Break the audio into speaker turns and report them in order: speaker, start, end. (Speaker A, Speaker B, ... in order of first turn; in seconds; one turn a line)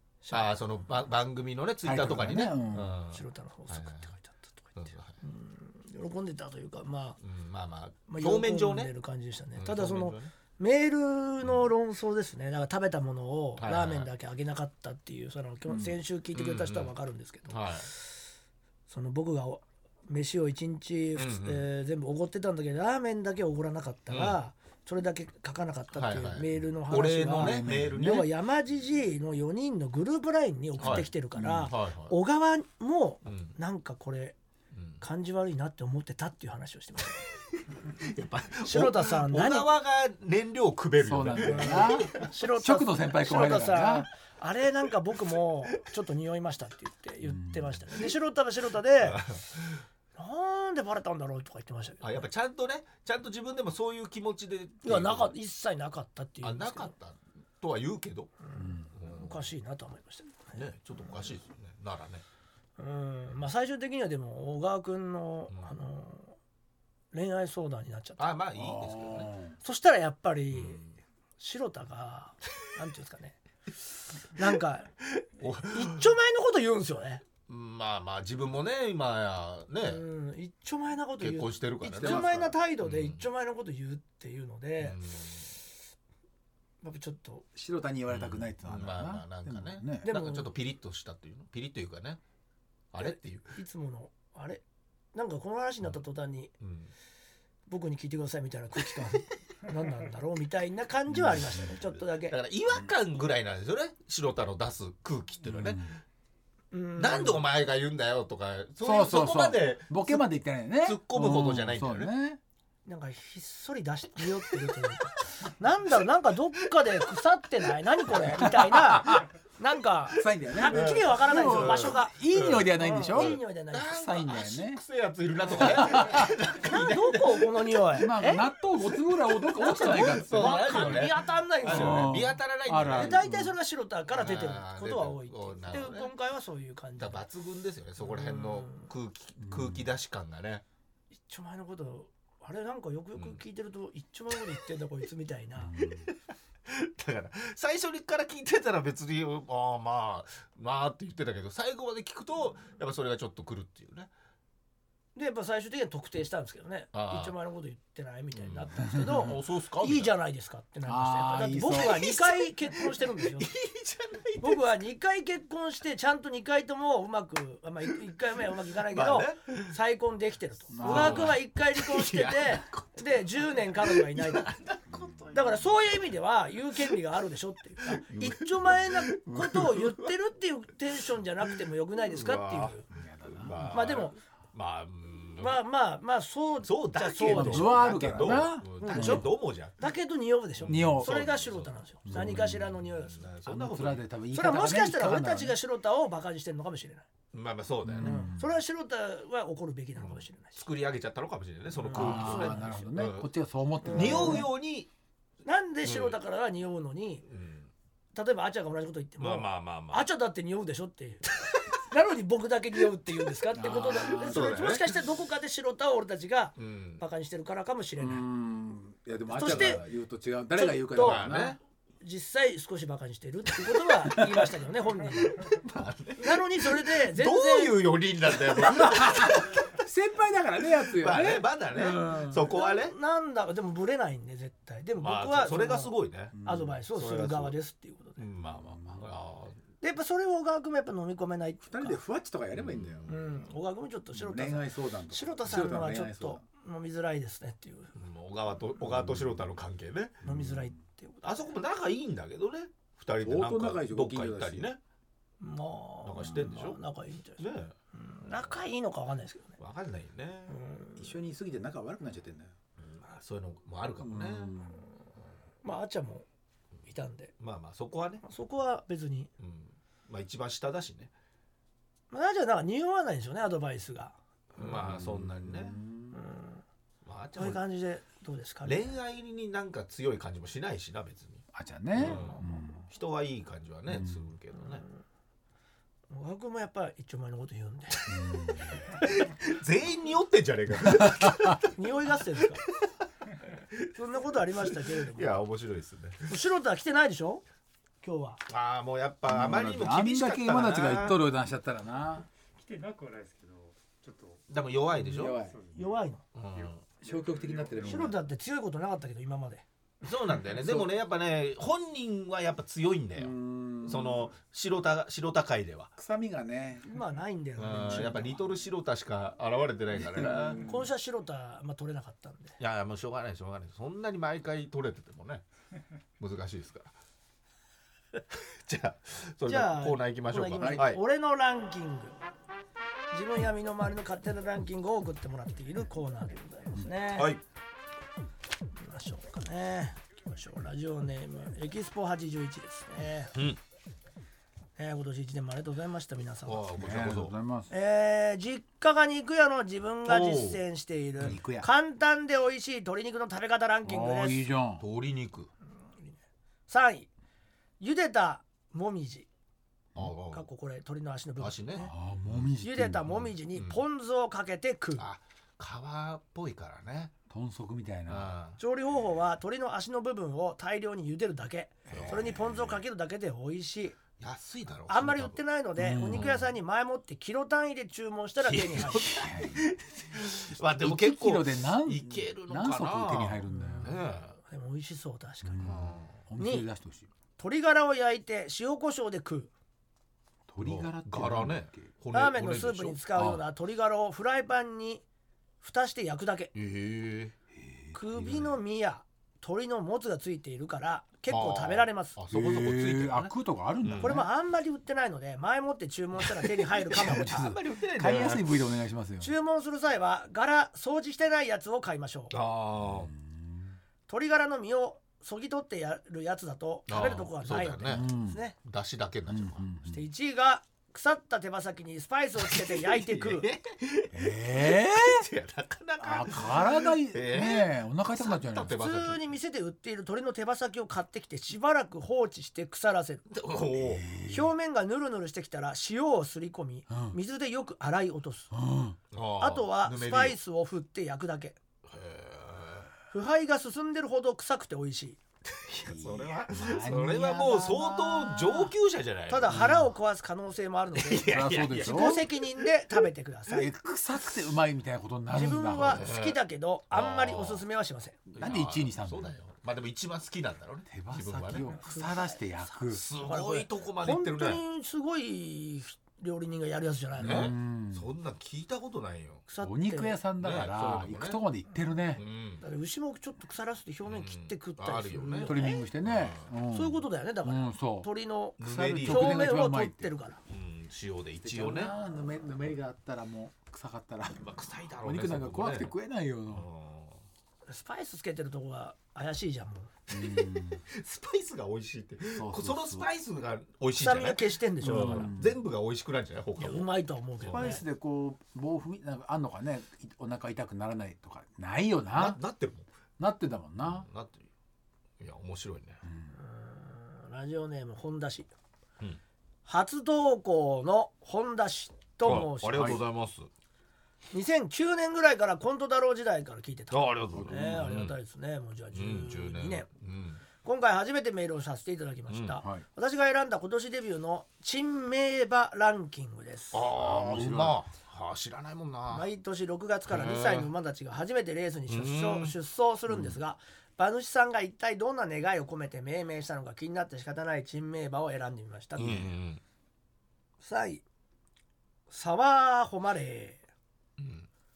Speaker A: 0.2-0.6
Speaker B: 0.3-4.1
Speaker C: 1.8-3.0
Speaker A: 3.1-4.7
Speaker B: 4.8-5.2
Speaker A: 5.2-7.2
Speaker B: 7.2-8.9
Speaker A: 8.1-18.1
Speaker B: 9.6-10.3
Speaker B: 13.6-14.1
Speaker B: 16.3-16.9
Speaker B: 17.5-17.9
Speaker A: 18.9-34.4
Speaker B: 21.1-21.6
Speaker B: 24.1-24.4
Speaker B: 25.9-28.3
Speaker C: 27.3-28.3
Speaker B: 30.8-32.1
Speaker C: 30.8-31.7
Speaker B: 33.2-33.5
Speaker B: 34.7-35.0
Speaker A: 35.0-37.2
Speaker B: 38.0-42.3
Speaker A: 38.6-39.7
Speaker C: 41.0-44.1
Speaker A: 41.4-49.2
Speaker C: 47.2-47.8
Speaker B: 49.0-49.8
Speaker A: 50.1-52.2
Speaker B: 52.0-55.3
Speaker A: 54.8-56.9
Speaker B: 56.4-58.3
Speaker A: 58.5-61.1
Speaker C: 58.5-58.9
Speaker B: 58.9-59.5
Speaker B: 60.5-62.2
Speaker A: 62.8-66.4
Speaker A: 67.1-68.2
Speaker B: 68.2-69.3
Speaker C: 68.5-69.6
Speaker A: 69.6-70.8
Speaker B: 70.5-70.9
Speaker A: 71.4-73.4
Speaker A: 74.3-74.9
Speaker B: 75.4-76.1
Speaker A: 75.6-77.2
Speaker B: 77.5-80.0
Speaker A: 79.8-85.0
Speaker B: 81.2-83.2
Speaker C: 82.0-82.3
Speaker B: 84.8-85.5
Speaker A: 86.8-87.5
Speaker C: 87.5-90.1
Speaker B: 88.1-92.2
Speaker A: 90.0-90.5
Speaker B: 92.9-93.6
Speaker A: 93.0-94.6
Speaker A: 95.1-96.5
Speaker B: 96.6-96.9
Speaker A: 97.7-102.3
Speaker B: 101.5-105.9
Speaker C: 105.5-105.9
Speaker A: 106.7-107.4
Speaker B: 107.0-110.2
Speaker C: 108.8-112.4
Speaker B: 110.8-112.1
Speaker A: 112.8-122.2
Speaker C: 118.1-119.2
Speaker C: 120.1-124.8
Speaker B: 120.7-127.6
Speaker A: 122.8-124.1
Speaker C: 125.5-126.3
Speaker A: 125.7-126.0
Speaker A: 126.6-128.4
Speaker C: 128.0-133.5
Speaker B: 129.5-133.2
Speaker A: 129.5-132.1
Speaker A: 132.9-137.2
Speaker B: 134.1-136.1
Speaker B: 137.0-140.6
Speaker A: 138.0-138.9
Speaker C: 139.4-139.9
Speaker A: 141.3-145.8
Speaker C: 145.6-146.1
Speaker B: 145.8-146.2
Speaker B: 146.7-154.1
Speaker A: 155.1-163.5
Speaker B: 156.9-157.3
Speaker B: 158.3-160.1
Speaker C: 159.0-159.3
Speaker C: 160.8-162.1
Speaker B: 161.7-164.6
Speaker A: 164.4-174.5
Speaker B: 168.8-169.7
Speaker C: 170.7-171.4
Speaker B: 170.8-175.8
Speaker C: 174.9-175.2
Speaker A: 175.3-182.8
Speaker B: 177.9-180.1
Speaker B: 182.1-185.6
Speaker C: 182.9-183.8
Speaker A: 183.7-184.2
Speaker A: 185.4-188.3
Speaker B: 186.6-189.8
Speaker C: 187.2-189.3
Speaker A: 188.8-193.2
Speaker B: 190.6-192.4
Speaker C: 190.7-191.2
Speaker C: 192.0-192.8
Speaker B: 192.9-194.0
Speaker C: 193.4-195.6
Speaker A: 194.3-197.1
Speaker B: 197.3-198.3
Speaker C: 197.8-198.5
Speaker A: 198.0-200.6
Speaker B: 200.0-203.3
Speaker A: 201.8-202.9
Speaker C: 201.9-204.5
Speaker A: 203.8-204.5
Speaker B: 203.9-204.9
Speaker A: 205.4-207.2
Speaker B: 205.8-206.2
Speaker B: 207.3-207.7
Speaker A: 208.1-211.3
Speaker B: 209.2-210.1
Speaker A: 211.8-218.2
Speaker C: 213.5-214.6
Speaker B: 214.1-215.0
Speaker B: 216.6-217.0
Speaker C: 218.0-221.6
Speaker A: 219.3-219.8
Speaker B: 219.4-219.8
Speaker A: 220.6-221.3
Speaker B: 220.9-221.6
Speaker A: 222.0-225.4
Speaker B: 225.2-229.8
Speaker A: 226.2-227.8
Speaker C: 228.6-232.4
Speaker B: 230.8-232.9
Speaker A: 232.4-238.2
Speaker B: 235.0-236.4
Speaker C: 236.3-236.8
Speaker B: 236.9-237.5
Speaker B: 238.2-239.6
Speaker C: 238.5-239.1
Speaker A: 239.8-242.0
Speaker C: 241.7-243.1
Speaker B: 242.5-243.3
Speaker A: 243.1-247.9
Speaker C: 244.1-246.4
Speaker B: 247.9-250.2
Speaker C: 250.2-250.7
Speaker A: 250.2-251.5
Speaker B: 251.2-254.8
Speaker C: 253.2-254.7
Speaker A: 255.4-259.6
Speaker B: 256.0-256.8
Speaker B: 257.4-257.7
Speaker B: 259.6-260.6
Speaker A: 260.5-261.1
Speaker C: 261.0-262.5
Speaker B: 262.8-264.5
Speaker C: 264.0-264.8
Speaker A: 265.6-266.2
Speaker A: 266.8-267.3
Speaker B: 267.4-268.2
Speaker A: 268.2-269.3
Speaker B: 269.4-271.1
Speaker A: 272.1-274.1
Speaker B: 274.5-275.8
Speaker C: 274.6-276.2
Speaker A: 276.1-276.6
Speaker B: 277.0-277.6
Speaker A: 277.4-278.9
Speaker B: 278.6-284.8
Speaker C: 281.5-282.9
Speaker C: 283.9-284.2
Speaker A: 286.1-288.1
Speaker C: 288.1-288.8
Speaker B: 288.8-291.7
Speaker C: 290.9-291.6
Speaker A: 291.7-292.6
Speaker A: 293.9-295.4
Speaker B: 294.6-296.3
Speaker A: 296.3-297.4
Speaker A: 298.0-298.4
Speaker B: 298.5-301.2
Speaker C: 299.3-302.3
Speaker D: 302.5-304.4
Speaker B: 304.5-305.4
Speaker C: 305.0-305.6
Speaker D: 305.2-308.2
Speaker A: 305.7-306.2
Speaker B: 306.3-306.8
Speaker C: 307.0-308.2
Speaker A: 307.8-309.6
Speaker B: 310.0-315.9
Speaker C: 310.6-310.9
Speaker C: 313.2-314.3
Speaker C: 315.9-316.9
Speaker A: 316.8-318.4
Speaker B: 317.6-320.6
Speaker C: 320.0-320.8
Speaker A: 320.6-322.6
Speaker B: 322.6-325.4
Speaker B: 326.2-326.9
Speaker B: 328.3-331.0
Speaker A: 329.5-332.2
Speaker C: 330.6-330.8
Speaker A: 333.1-337.3
Speaker B: 337.1-337.4
Speaker A: 338.8-343.3
Speaker A: 344.8-346.6
Speaker B: 346.4-347.3
Speaker C: 346.8-347.7
Speaker A: 347.7-354.4
Speaker B: 350.0-350.6
Speaker C: 351.2-351.7
Speaker C: 353.8-354.8
Speaker B: 354.8-355.5
Speaker A: 356.7-357.1
Speaker A: 357.8-359.3
Speaker B: 359.9-360.4
Speaker A: 360.3-361.9
Speaker B: 361.4-362.5
Speaker C: 361.8-363.2
Speaker A: 362.6-365.0
Speaker B: 363.1-363.8
Speaker B: 365.0-367.1
Speaker C: 367.3-368.3
Speaker B: 368.1-368.6
Speaker A: 368.6-374.0
Speaker C: 371.9-372.4
Speaker B: 371.9-372.7
Speaker B: 374.2-375.4
Speaker A: 374.9-379.2
Speaker C: 375.8-376.4
Speaker B: 376.1-376.5
Speaker B: 378.4-384.4
Speaker C: 378.8-379.7
Speaker C: 380.8-384.0
Speaker A: 383.5-385.7
Speaker C: 385.4-387.1
Speaker B: 385.6-386.1
Speaker A: 386.4-386.6
Speaker A: 387.4-389.5
Speaker C: 390.5-391.9
Speaker B: 390.6-393.0
Speaker A: 392.1-395.0
Speaker C: 393.1-393.4
Speaker A: 395.6-396.5
Speaker B: 396.5-397.3
Speaker C: 397.6-398.5
Speaker A: 397.9-402.2
Speaker B: 401.3-404.2
Speaker C: 402.3-404.3
Speaker A: 404.0-407.5
Speaker B: 406.9-408.6
Speaker C: 406.9-409.3
Speaker A: 409.2-412.3
Speaker B: 412.3-413.1
Speaker C: 412.8-413.8
Speaker A: 414.1-418.6
Speaker B: 416.9-418.1
Speaker C: 417.9-418.4
Speaker B: 418.6-419.7
Speaker C: 419.3-420.0
Speaker A: 419.9-423.5
Speaker B: 422.4-429.2
Speaker C: 424.1-425.3
Speaker C: 426.0-428.8
Speaker A: 428.7-433.2
Speaker B: 433.3-434.0
Speaker C: 433.8-434.5
Speaker A: 434.3-438.5
Speaker C: 436.9-437.2
Speaker C: 438.5-439.0
Speaker B: 439.1-440.4
Speaker A: 439.4-441.6
Speaker B: 441.9-442.9
Speaker A: 443.1-445.2
Speaker C: 445.7-448.7
Speaker B: 445.8-449.6
Speaker A: 449.3-453.7
Speaker C: 449.5-449.9
Speaker B: 450.9-452.7
Speaker C: 451.2-452.2
Speaker C: 453.5-456.0
Speaker A: 455.3-458.2
Speaker B: 455.9-456.4
Speaker B: 456.9-457.6
Speaker C: 458.3-459.3
Speaker B: 458.3-461.7
Speaker C: 460.9-463.0
Speaker A: 461.8-467.5
Speaker B: 462.9-464.6
Speaker C: 467.2-468.1
Speaker B: 467.2-469.4
Speaker A: 469.5-470.2
Speaker C: 469.6-472.2
Speaker B: 470.4-471.4
Speaker B: 472.1-472.6
Speaker A: 472.6-475.9
Speaker B: 474.1-476.5
Speaker C: 475.4-480.1
Speaker A: 476.7-480.4
Speaker B: 478.6-479.5
Speaker B: 480.5-481.9
Speaker C: 481.4-486.7
Speaker B: 484.4-485.9
Speaker B: 486.5-487.2
Speaker A: 487.7-489.9
Speaker C: 490.1-490.8
Speaker B: 490.1-496.9
Speaker C: 492.3-493.1
Speaker A: 493.9-495.3
Speaker C: 494.8-495.6
Speaker A: 496.6-497.8
Speaker B: 497.4-497.7
Speaker C: 497.4-502.4
Speaker B: 502.1-502.9
Speaker C: 503.2-504.1
Speaker B: 503.8-504.5
Speaker B: 505.2-506.0
Speaker C: 506.0-506.3
Speaker A: 506.3-508.5
Speaker A: 509.6-513.0
Speaker B: 512.2-513.5
Speaker C: 512.3-513.0
Speaker A: 514.3-519.9
Speaker B: 516.9-518.1
Speaker C: 517.3-517.8
Speaker B: 518.9-520.4
Speaker A: 520.6-526.8
Speaker B: 522.3-522.6
Speaker B: 526.7-529.3
Speaker C: 527.0-527.8
Speaker A: 529.1-539.3
Speaker B: 530.1-530.7
Speaker B: 531.9-532.5
Speaker B: 533.1-533.3
Speaker B: 539.0-539.6
Speaker A: 540.6-541.0
Speaker A: 542.1-543.6
Speaker B: 544.2-544.5